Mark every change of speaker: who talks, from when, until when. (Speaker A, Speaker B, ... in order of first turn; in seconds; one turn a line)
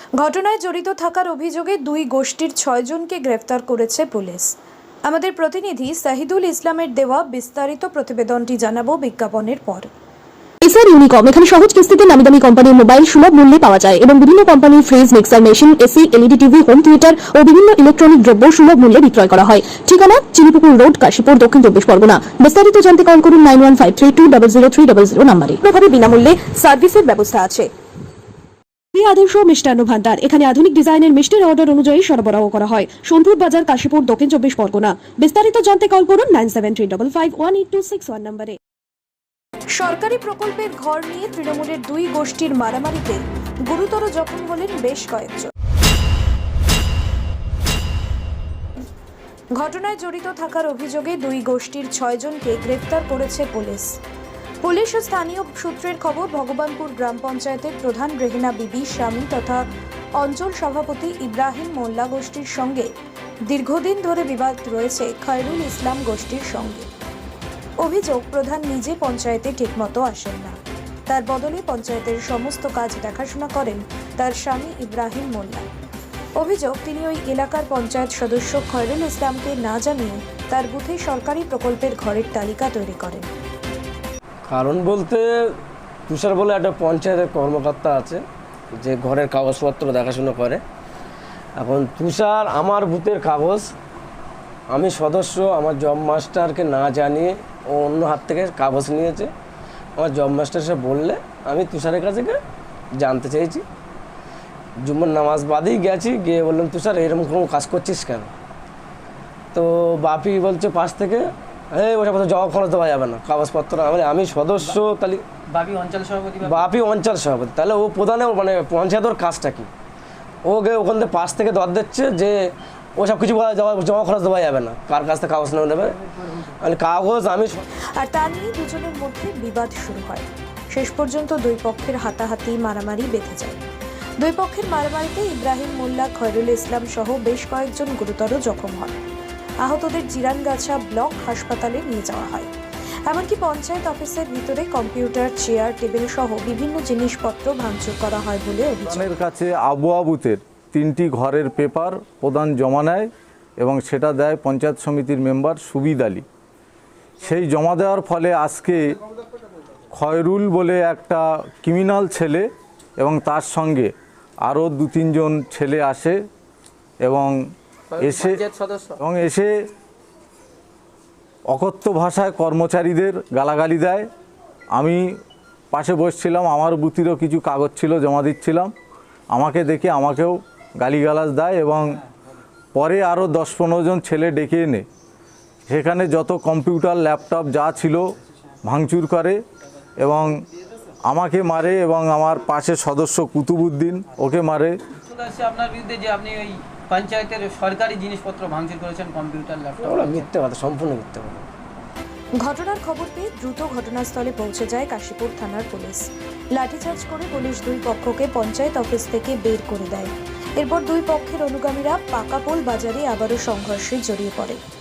Speaker A: 0.2-9.9
Speaker B: 10.6-26.4
Speaker B: 28.9-38.6
Speaker A: 39.7-45.5
Speaker A: 49.5-54.0
Speaker A: 54.6-62.9
Speaker A: 63.5-66.9
Speaker A: 67.8-75.7
Speaker A: 76.3-83.3
Speaker C: 84.5-90.6
Speaker C: 91.6-93.7
Speaker C: 94.7-99.3
Speaker C: 100.0-102.4
Speaker C: 103.0-103.6
Speaker C: 104.8-108.3
Speaker C: 109.5-115.2
Speaker D: 115.5-116.7
Speaker C: 116.4-119.7
Speaker C: 120.4-127.6
Speaker A: 128.0-133.6
Speaker A: 134.2-138.9
Speaker A: 139.6-142.5
Speaker A: 143.1-149.1
Speaker E: 148.8-156.2
Speaker E: 157.2-159.0
Speaker E: 159.9-163.9
Speaker E: 164.4-166.2
Speaker E: 167.0-167.3
Speaker D: 167.9-169.0
Speaker E: 168.0-168.4
Speaker E: 169.0-169.5
Speaker E: 171.5-174.1
Speaker E: 174.7-175.2
Speaker E: 175.7-178.7
Speaker E: 179.3-182.0
Speaker E: 182.7-184.8
Speaker E: 185.7-188.0
Speaker E: 188.6-189.4
Speaker E: 190.0-190.3
Speaker E: 191.1-194.8
Speaker D: 195.1-200.3
Speaker C: 199.8-201.5
Speaker A: 202.4-214.6